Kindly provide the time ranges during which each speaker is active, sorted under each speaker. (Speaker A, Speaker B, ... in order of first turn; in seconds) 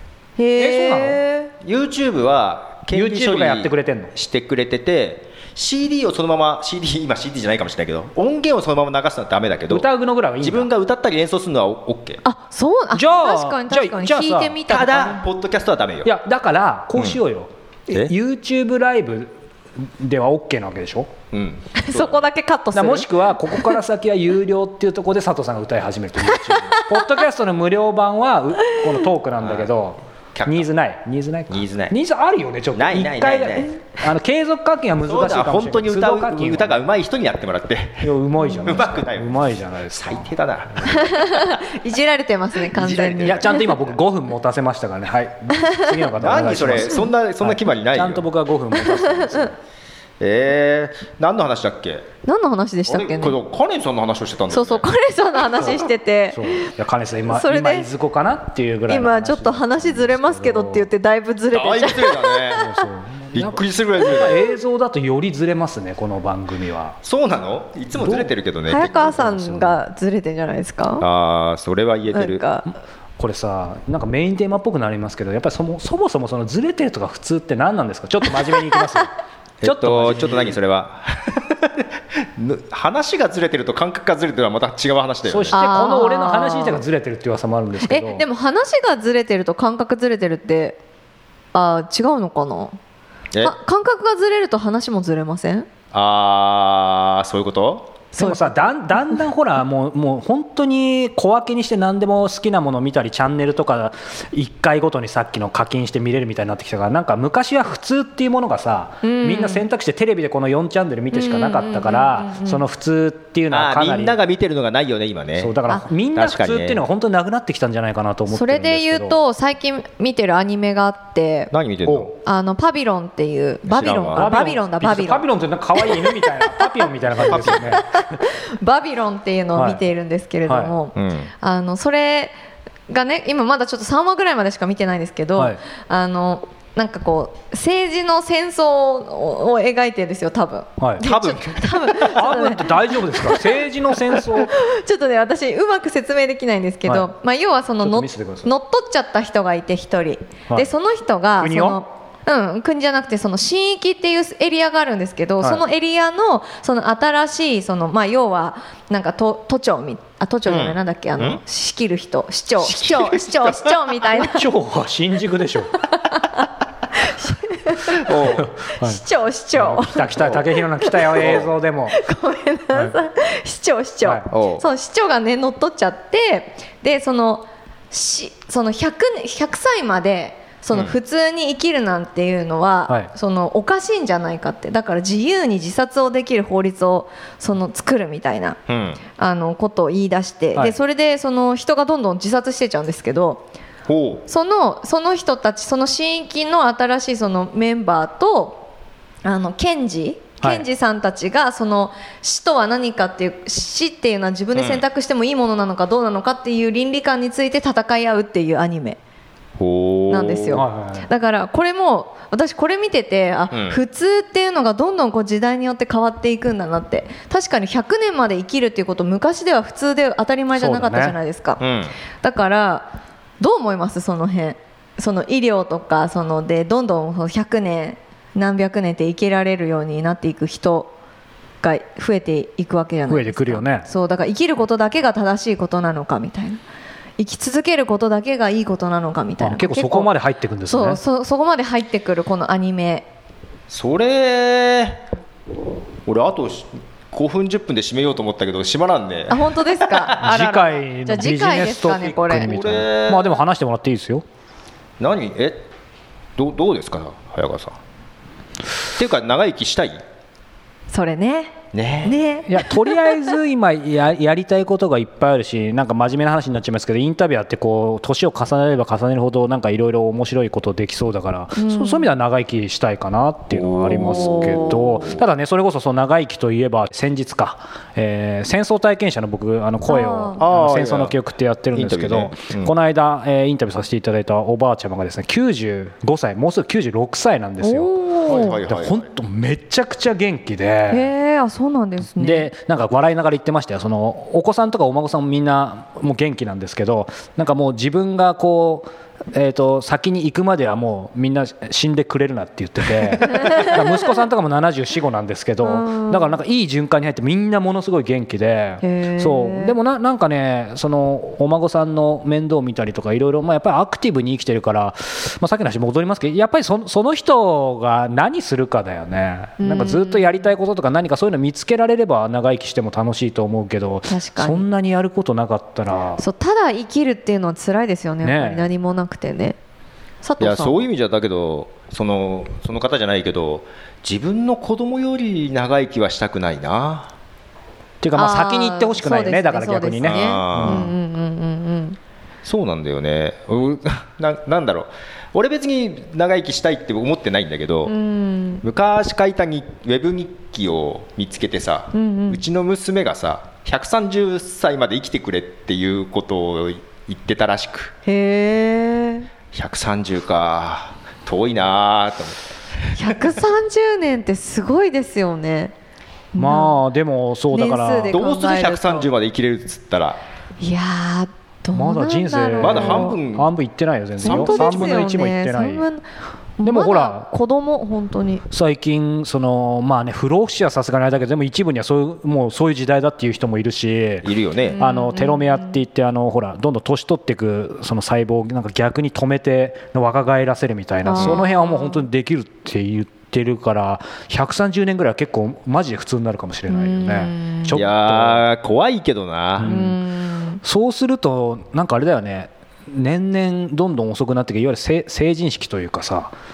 Speaker A: 0.4-1.5, 12.2-15.2, 21.8-23.7, 26.3-27.0, 38.4-38.8, 40.8-43.6, 45.5-46.1, 46.8-47.1, 48.8-49.5, 52.2-53.4, 54.5-56.7, 57.3-57.9, 58.9-62.8, 68.7-71.0, 72.1-72.7, 85.5-86.8, 87.8-90.8, 91.5-92.8, 93.4-95.7, 98.1-99.1, 109.0-109.6, 111.1-112.6, 118.3-121.5, 122.2-125.2, 125.8-126.7, 127.4-132.3, 132.9-164.4, 166.0-170.3, 170.8-171.1, 171.9-188.6, 189.2-193.4, 194.3-198.7, 199.2-209.0, 210.1-221.6, 222.2-222.9, 223.4-230.9, 231.6-236.6, 237.2-240.1, 240.7-243.1, 249.3-250.3, 251.0-252.5, 260.9-262.9, 271.6-272.1, 274.0-275.0, 279.9-280.4, 287.6-288.6, 290.9-292.5, 303.4-303.7, 305.6-306.3, 308.8-309.7, 319.6-320.4, 324.1-324.6, 326.2-329.6, 330.2-330.8, 338.1-342.0, 347.9-348.6, 351.9-352.4, 358.1-359.3, 362.9-365.7, 366.3-366.8, 367.5-369.1, 370.6-373.2, 374.2-376.0, 376.6-378.4, 384.7-385.7, 391.0-392.0, 396.7-397.8, 399.6-400.6
Speaker B: 0.6-1.2, 2.9-4.1, 9.7-10.7, 12.9-14.6, 16.0-21.1, 22.7-36.8, 38.0-41.0, 43.0-49.5, 56.3-60.9, 62.5-67.0, 67.9-68.3, 68.8-69.8, 73.2-79.1, 79.6-80.6, 85.2-88.2, 98.2-114.2, 115.4-119.2, 124.1-127.9, 129.5-129.8, 130.5-130.7, 140.8-141.0, 142.0-144.5, 147.8-148.5, 151.4-151.8, 164.1-165.8, 168.2-169.0, 169.6-172.0, 210.5-211.1, 220.6-221.2, 233.1-233.9, 239.4-241.0, 250.2-254.2, 262.4-291.1, 292.1-326.2, 328.2-328.7, 338.0-340.9, 366.4-368.2, 371.7-375.9, 376.6-377.3, 378.5-398.4, 399.6-400.0, 400.6-406.3
Speaker C: 1.6-9.9, 10.4-12.2, 14.7-16.1, 21.3-22.2, 29.4-29.7, 30.3-30.6, 31.5-31.9, 32.7-33.7, 35.0-41.6, 42.7-43.9, 46.2-48.2, 50.2-52.1, 52.9-54.9, 61.5-62.7, 63.3-64.5, 67.0-69.2, 71.0-72.4, 79.6-85.6, 95.9-98.0, 113.5-115.6, 116.1-116.8, 121.5-122.1, 123.7-124.5, 127.1-127.8, 130.9-131.3, 141.0-142.2, 160.4-161.4, 162.6-164.0, 168.0-168.5, 170.2-170.4, 171.1-171.5, 174.3-174.7, 188.7-189.0, 193.9-194.2, 204.5-204.8, 209.6-210.6, 213.5-213.8, 221.6-221.9, 243.7-245.0, 246.1-250.8, 252.3-253.3, 255.0-255.7, 256.4-257.8, 258.9-260.0, 261.7-262.2, 273.5-274.8, 280.4-281.2, 281.7-282.7, 288.3-289.1, 330.4-337.1, 340.0-340.9, 342.4-347.9, 348.6-357.9, 359.5-362.9, 368.1-370.2, 372.6-373.5, 374.2-375.0, 384.2-384.8, 397.7-399.7